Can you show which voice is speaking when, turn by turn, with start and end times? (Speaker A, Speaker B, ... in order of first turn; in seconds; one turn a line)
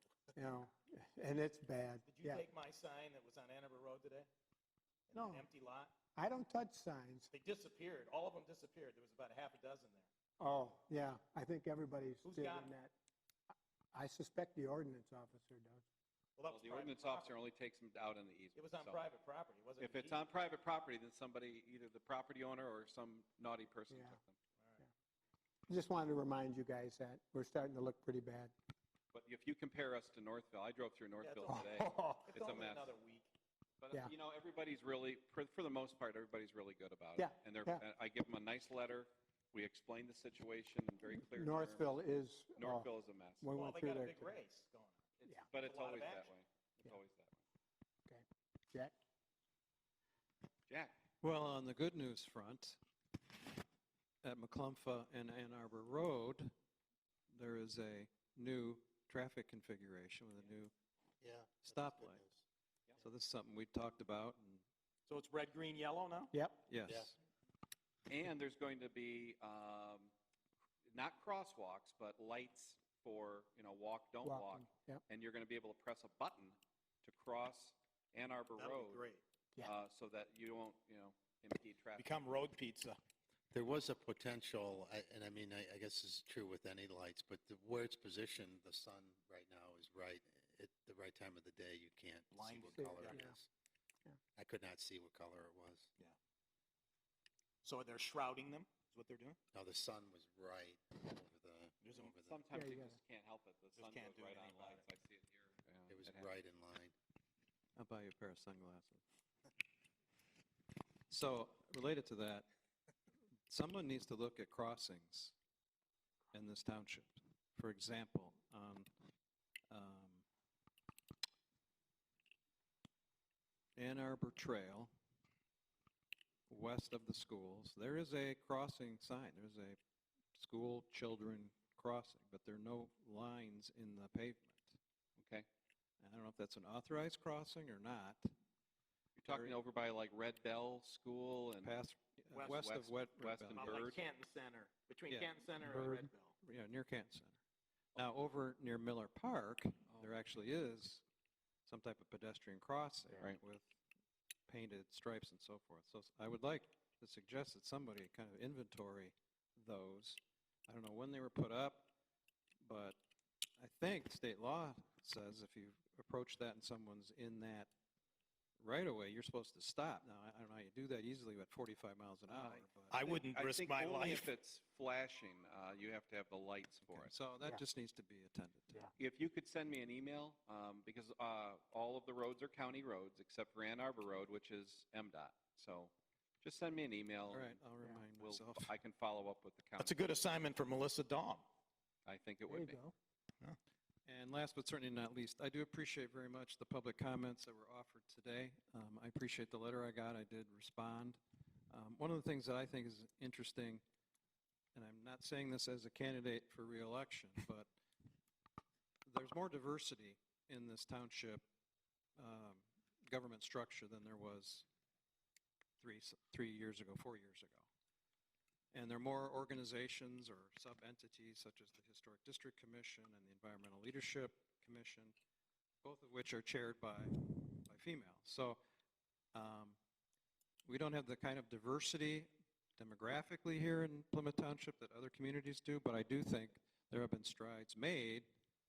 Speaker A: 0.3-2.4
Speaker B: 2.0-4.3
Speaker B: 5.1-5.9
Speaker A: 5.1-5.4
Speaker A: 6.1-7.3
Speaker B: 7.3-10.1
Speaker A: 10.4-12.9
Speaker B: 12.2-12.7
Speaker A: 13.9-15.8
Speaker B: 16.4-17.3
Speaker C: 16.5-19.0
Speaker B: 18.5-20.2
Speaker C: 19.8-24.4
Speaker A: 23.9-24.2
Speaker A: 25.7-28.5
Speaker C: 29.1-32.9
Speaker B: 31.2-33.3
Speaker C: 33.8-42.0
Speaker A: 37.2-37.8
Speaker A: 41.1-42.9
Speaker C: 42.5-43.5
Speaker A: 43.4-44.3
Speaker B: 43.5-45.0
Speaker C: 45.2-47.4
Speaker B: 45.5-46.3
Speaker A: 48.1-48.9
Speaker D: 51.2-52.8
Speaker D: 54.2-56.5
Speaker D: 57.3-60.7
Speaker E: 61.2-62.4
Speaker D: 61.6-62.2
Speaker D: 63.0-64.6
Speaker B: 65.1-66.3
Speaker A: 66.3-66.6
Speaker D: 66.7-67.1
Speaker E: 66.9-67.1
Speaker C: 68.1-70.1
Speaker C: 70.9-79.0
Speaker A: 74.2-75.0
Speaker B: 78.5-79.2
Speaker C: 79.6-82.2
Speaker B: 82.0-83.0
Speaker E: 83.5-93.5
Speaker B: 92.3-93.3
Speaker A: 92.8-93.3
Speaker E: 94.3-95.9
Speaker B: 97.6-99.4
Speaker E: 99.5-102.4
Speaker B: 101.8-102.1
Speaker C: 102.2-106.3
Speaker A: 102.5-103.0
Speaker B: 103.8-104.8
Speaker E: 105.9-106.9
Speaker D: 107.8-109.0
Speaker D: 111.1-112.5
Speaker D: 113.5-115.3
Speaker D: 116.3-118.9
Speaker D: 119.7-120.2
Speaker D: 123.8-124.9
Speaker D: 126.5-129.8
Speaker D: 130.3-134.8
Speaker C: 135.2-135.4
Speaker D: 136.0-138.3
Speaker C: 139.2-141.7
Speaker D: 139.3-139.5
Speaker D: 141.6-143.8
Speaker B: 142.3-142.7
Speaker C: 142.5-144.0
Speaker B: 143.6-146.3
Speaker D: 145.1-147.4
Speaker D: 147.9-151.0
Speaker C: 149.9-150.1
Speaker D: 151.7-153.7
Speaker D: 154.5-161.9
Speaker D: 162.6-163.0
Speaker D: 163.6-167.7
Speaker D: 168.6-172.9
Speaker C: 172.3-177.1
Speaker B: 172.9-174.3
Speaker D: 176.9-178.9
Speaker C: 179.0-187.6
Speaker D: 187.3-188.7
Speaker C: 188.2-190.0
Speaker B: 189.8-191.4
Speaker C: 192.1-192.8
Speaker A: 192.5-192.9
Speaker D: 194.1-201.2
Speaker D: 201.7-203.8
Speaker D: 204.7-207.7
Speaker D: 209.1-211.4
Speaker D: 212.2-214.7
Speaker D: 215.8-217.7
Speaker D: 218.7-225.1
Speaker D: 225.8-228.6
Speaker D: 229.3-229.8
Speaker D: 230.6-238.3